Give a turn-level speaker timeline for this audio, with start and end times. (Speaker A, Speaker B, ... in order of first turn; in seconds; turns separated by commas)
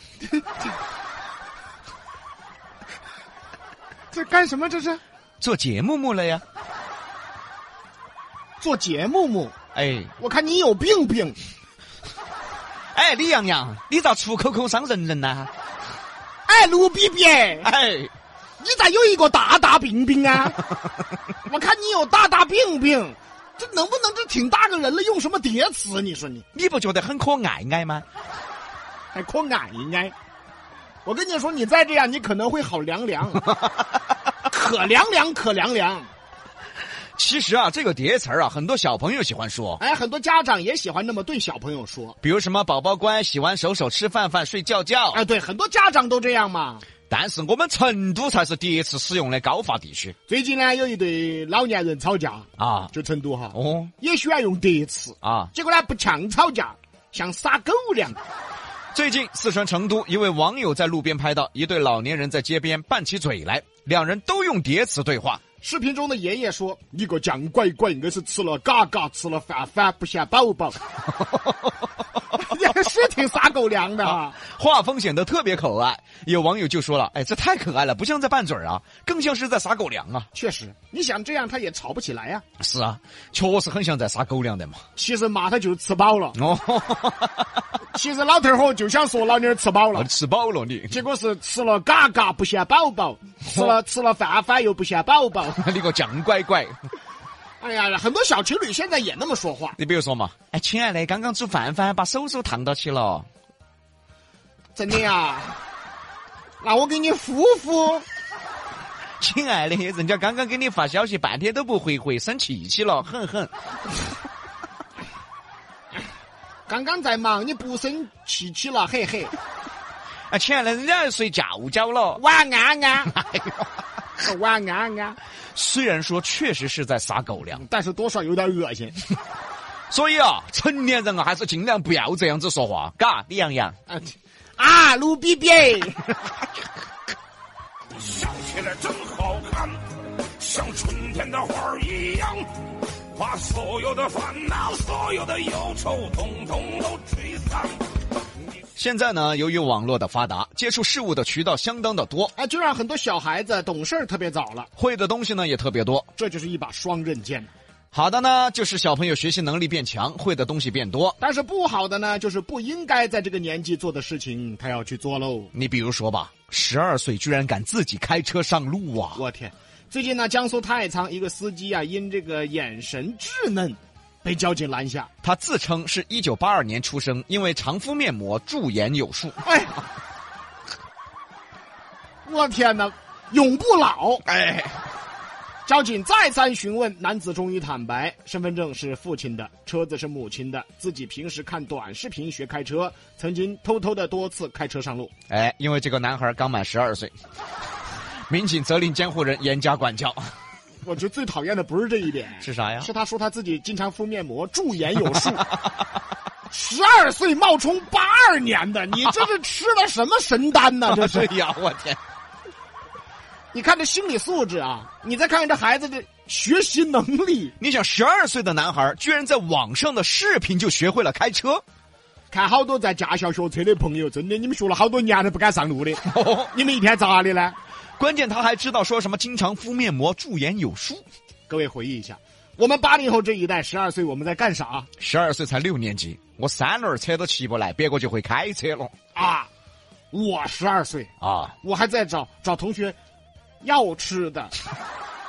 Speaker A: 0.2-0.6, Speaker A: 4.1-5.0, Speaker B: 5.4-6.4, Speaker A: 8.6-9.6, Speaker B: 9.7-10.1, Speaker A: 10.2-11.4, Speaker B: 12.9-15.5, Speaker A: 16.5-17.7, Speaker B: 17.6-18.1, Speaker A: 18.6-20.6, Speaker A: 21.4-26.5, Speaker B: 26.5-28.1, Speaker A: 29.1-30.1, Speaker A: 31.1-33.5, Speaker B: 33.5-33.9, Speaker A: 34.5-36.1, Speaker B: 37.2-39.8, Speaker A: 39.8-42.2, Speaker B: 42.2-45.2, Speaker A: 45.1-46.9, Speaker B: 47.1-50.1, Speaker A: 50.3-58.2, Speaker B: 52.6-52.9, Speaker B: 53.5-53.9, Speaker B: 55.2-55.5, Speaker B: 58.9-65.4, Speaker A: 65.6-70.8, Speaker B: 71.2-71.8, Speaker A: 72.3-74.4, Speaker B: 74.1-80.3, Speaker A: 80.3-82.4, Speaker B: 82.6-84.8, Speaker A: 85.0-86.4, Speaker B: 86.4-87.6, Speaker A: 87.9-90.1, Speaker B: 89.9-91.0, Speaker A: 90.9-95.6, Speaker B: 93.5-93.8, Speaker B: 95.5-96.8, Speaker A: 97.6-99.8, Speaker B: 99.8-103.3, Speaker A: 104.8-105.6, Speaker A: 106.6-108.0, Speaker B: 109.2-113.5, Speaker A: 116.7-119.3, Speaker B: 120.3-122.2, Speaker A: 122.2-123.1, Speaker B: 123.2-123.7, Speaker A: 124.2-125.2, Speaker B: 125.5-127.6, Speaker A: 127.5-129.0, Speaker B: 129.9-133.8, Speaker A: 133.9-136.1, Speaker C: 138.1-139.8, Speaker C: 140.4-142.5, Speaker C: 143.2-147.7, Speaker B: 148.8-152.3, Speaker A: 152.4-154.7, Speaker B: 154.8-156.1, Speaker A: 156.2-157.5, Speaker B: 157.9-161.2, Speaker A: 161.2-165.5, Speaker B: 165.5-169.2, Speaker A: 169.2-175.1, Speaker B: 175.2-179.4, Speaker A: 179.4-179.8, Speaker A: 182.2-184.2, Speaker B: 184.3-184.8, Speaker A: 185.7-195.1, Speaker B: 195.3-197.1, Speaker B: 198.3-200.2, Speaker A: 200.8-205.4, Speaker B: 202.4-202.9, Speaker B: 205.5-205.8, Speaker A: 206.5-211.3, Speaker B: 210.9-212.0, Speaker A: 213.5-217.5, Speaker B: 217.6-221.6, Speaker A: 222.3-227.6, Speaker B: 226.0-226.5, Speaker B: 228.0-231.0, Speaker A: 231.5-234.9, Speaker B: 235.0-238.9, Speaker A: 239.2-239.5, Speaker A: 240.1-241.1, Speaker B: 241.2-241.5, Speaker A: 241.6-243.0, Speaker A: 243.6-244.5